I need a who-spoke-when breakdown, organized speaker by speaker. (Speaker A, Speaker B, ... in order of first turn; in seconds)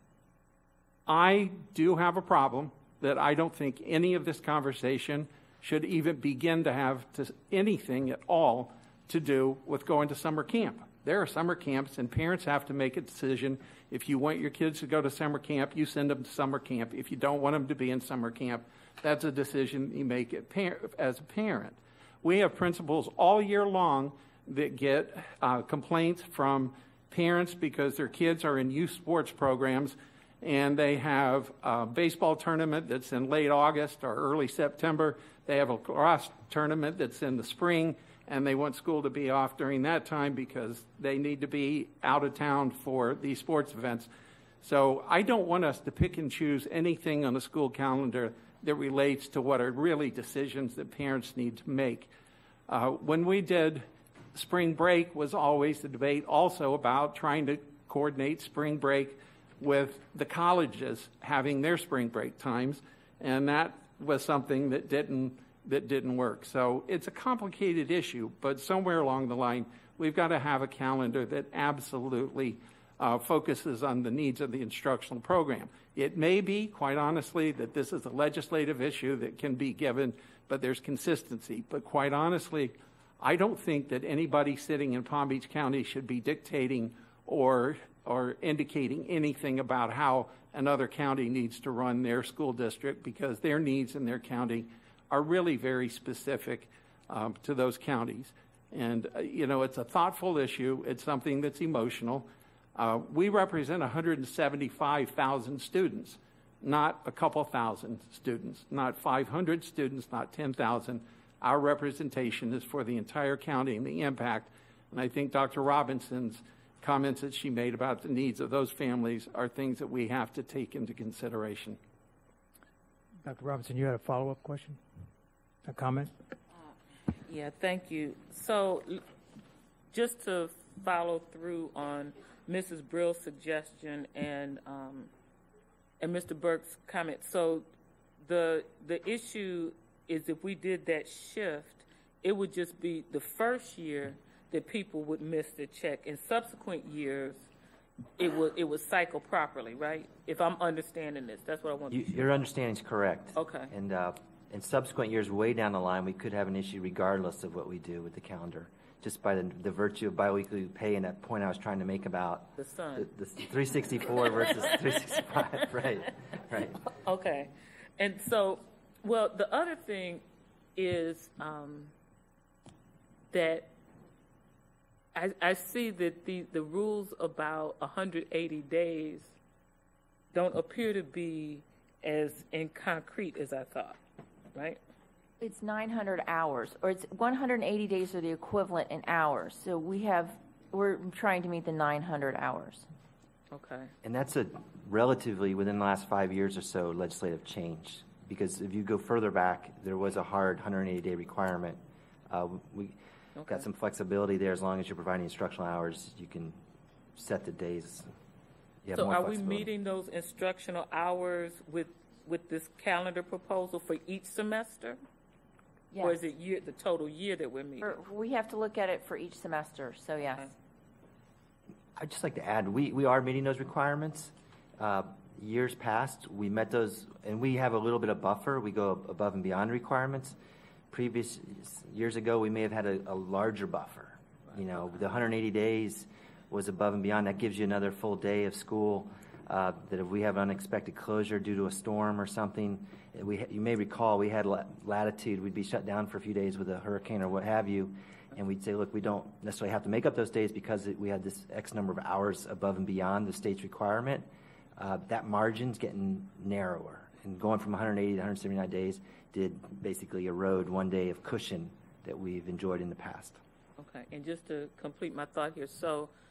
Speaker A: 1.1-44.1, 44.6-52.1, 52.7-121.8
Speaker B: 123.2-124.8, 125.7-126.1
Speaker C: 127.3-129.0, 129.9-135.1, 136.0-137.7, 138.2-147.5, 148.2-152.3, 153.3-153.7, 162.6-163.1, 164.3-164.8, 167.0-170.2, 170.8-171.9, 173.3-173.7, 175.1-179.3, 180.3-184.0, 193.5-193.9, 208.9-215.0, 216.0-217.9, 263.8-266.1
Speaker D: 151.9-166.8, 194.0-201.8, 202.3-206.6, 207.1-208.1, 208.8-209.7, 222.0-230.3, 230.9-254.2, 254.8-263.4
Speaker E: 185.4-192.9, 215.9-216.2, 217.8-220.5